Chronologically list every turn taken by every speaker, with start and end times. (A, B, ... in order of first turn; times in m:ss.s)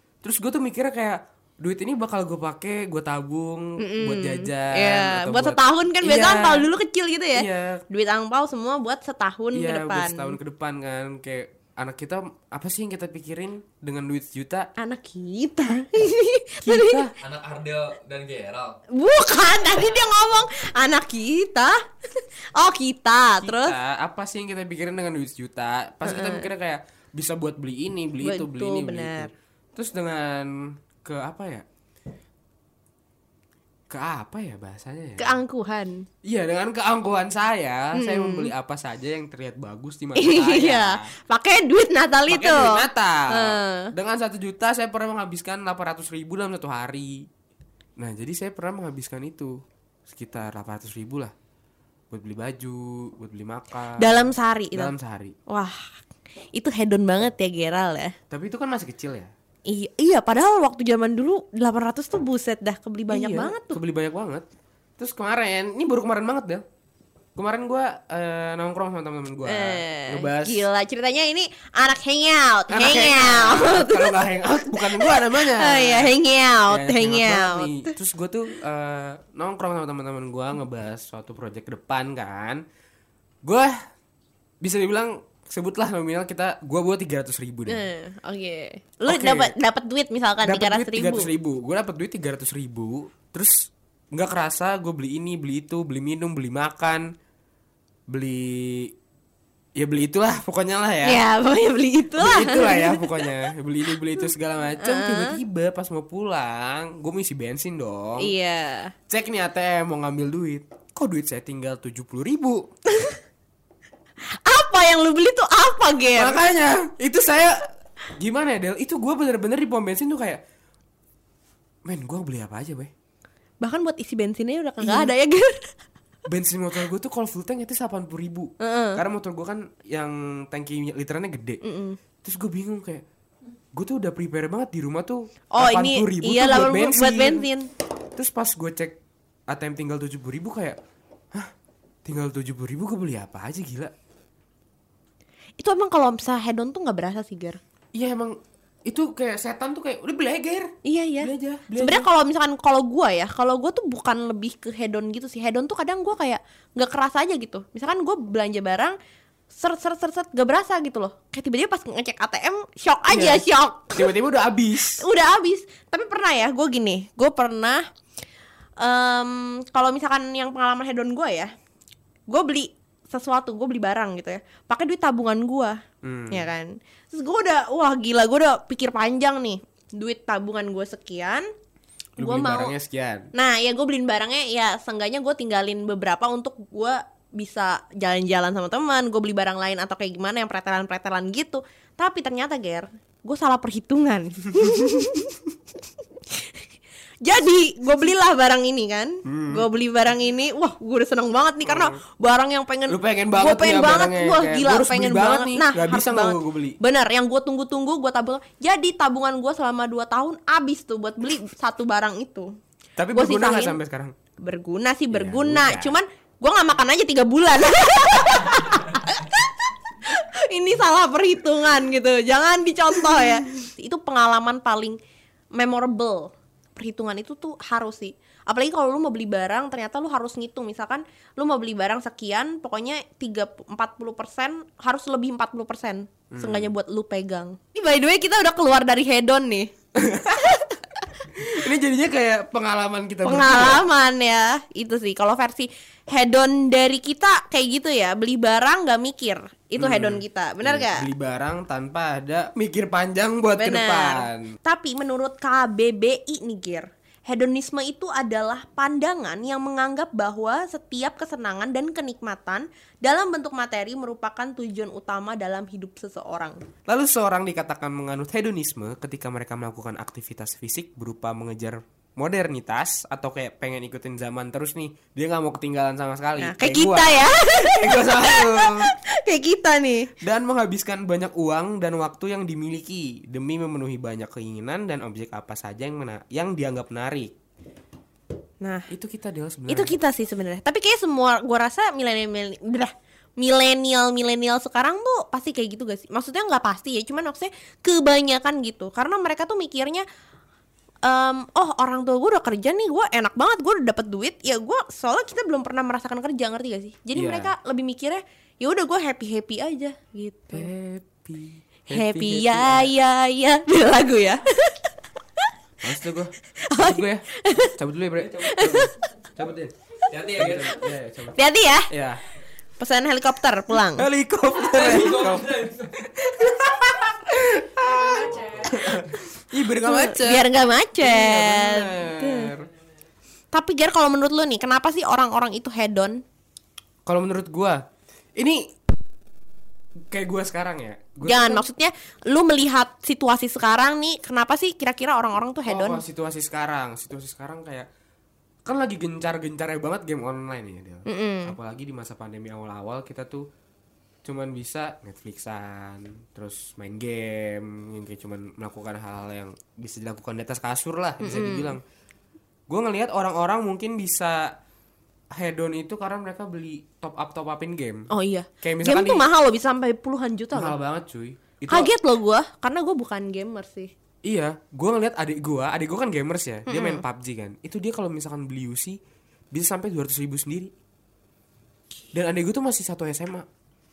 0:00.2-0:06.7 A
0:03.8-0:10.4 B
0:07.4-0:07.8 A
0:09.5-0:14.7 A
0:14.8-0:17.0 B
0:16.6-0:17.1 A
0:17.2-0:18.8 C
0:18.9-0:21.8 B
0:22.6-0:23.8 B
0:23.4-0:31.7 A
0:26.0-0:26.5 B
0:28.2-0:29.3 B
0:33.9-0:35.4 A
0:35.2-0:36.1 B
0:36.2-0:41.1 A
0:38.0-0:38.5 B
0:40.2-0:43.9 B
0:42.3-0:47.3 A
0:48.0-0:51.3 A
0:52.1-0:55.4 A
0:54.0-0:54.9 B
0:55.5-0:55.9 B
0:56.5-0:58.2 B
0:58.3-0:59.3 A
0:59.7-1:03.8 B
1:03.1-1:04.5 A
1:05.0-1:06.6 A
1:07.4-1:10.7 A
1:09.5-1:14.2 B
1:12.7-1:16.1 A
1:14.7-1:17.9 B
1:16.7-1:22.6 A
1:23.4-1:23.8 A
1:24.6-1:27.9 A
1:27.7-1:31.3 B
1:29.1-1:29.5 A
1:30.4-1:37.1 A
1:38.1-1:38.9 A
1:39.8-1:41.2 A
1:41.0-1:43.3 B
1:42.2-1:48.3 A
1:44.8-1:45.4 B
1:48.2-1:48.9 B
1:49.1-1:52.7 A
1:54.4-1:56.4 B
1:56.2-2:00.4 A
2:01.8-2:02.9 A
2:03.6-2:05.7 B
2:04.8-2:05.1 A
2:06.3-2:11.6 A
2:08.6-2:09.0 B
2:11.6-2:12.0 B
2:12.2-2:13.0 A
2:13.7-2:17.5 A
2:15.5-2:17.7 B
2:18.2-2:19.0 A
2:19.5-2:20.8 A
2:22.0-2:23.9 A
2:25.6-2:27.6 B
2:27.9-2:32.1 A
2:30.8-2:39.0 B
2:39.5-2:44.1 B
2:43.1-2:45.0 A
2:45.0-2:47.9 B
2:48.8-2:51.5 B
2:52.3-2:55.8 B
2:56.0-2:56.5 A
2:56.3-3:01.5 B
3:02.2-3:03.3 A
3:02.2-3:02.7 B
3:03.3-3:15.4 B
3:14.6-3:14.9 A
3:17.2-3:32.5 B
3:19.3-3:19.6 A
3:21.6-3:22.0 A
3:22.9-3:26.8 A
3:33.0-3:34.2 A
3:33.1-3:33.8 B
3:34.4-3:39.5 B
3:35.1-3:36.0 A
3:40.0-3:45.0 B
3:45.5-3:59.7 B
3:56.3-3:56.7 A
4:00.0-4:00.6 A
4:01.3-4:03.8 A
4:03.2-4:11.1 B
4:09.8-4:14.6 A
4:13.6-4:26.6 B
4:26.9-4:38.9 A
4:36.4-4:40.1 B
4:40.2-4:47.3 A
4:48.6-4:48.9 B
4:48.9-4:50.0 A
4:49.7-5:00.0 B
5:01.0-5:10.7 B
5:07.1-5:07.5 A
5:10.5-5:12.9 A
5:11.9-5:14.8 B
5:15.8-5:19.7 A
5:16.7-5:17.7 B
5:18.4-5:18.9 B
5:20.1-5:20.9 C
5:20.3-5:22.2 A
5:21.4-5:21.9 B
5:22.8-5:24.1 B
5:24.0-5:32.7 A
5:24.7-5:25.9 C
5:29.8-5:32.5 B
5:33.5-5:36.2 B
5:37.1-5:37.8 A
5:38.4-5:38.6 A
5:40.1-5:41.7 A
5:41.2-5:46.0 B
5:45.7-5:47.9 A
5:48.6-5:53.5 A
5:51.1-5:51.6 B
5:54.2-6:01.8 A
6:01.2-6:01.8 B
6:02.7-6:04.5 A
6:05.4-6:08.1 A
6:08.1-6:10.8 B
6:08.6-6:09.3 A
6:10.5-6:11.9 A
6:11.7-6:13.9 B
6:14.2-6:19.0 A
6:16.7-6:17.0 B
6:19.5-6:20.7 A
6:22.1-6:23.5 A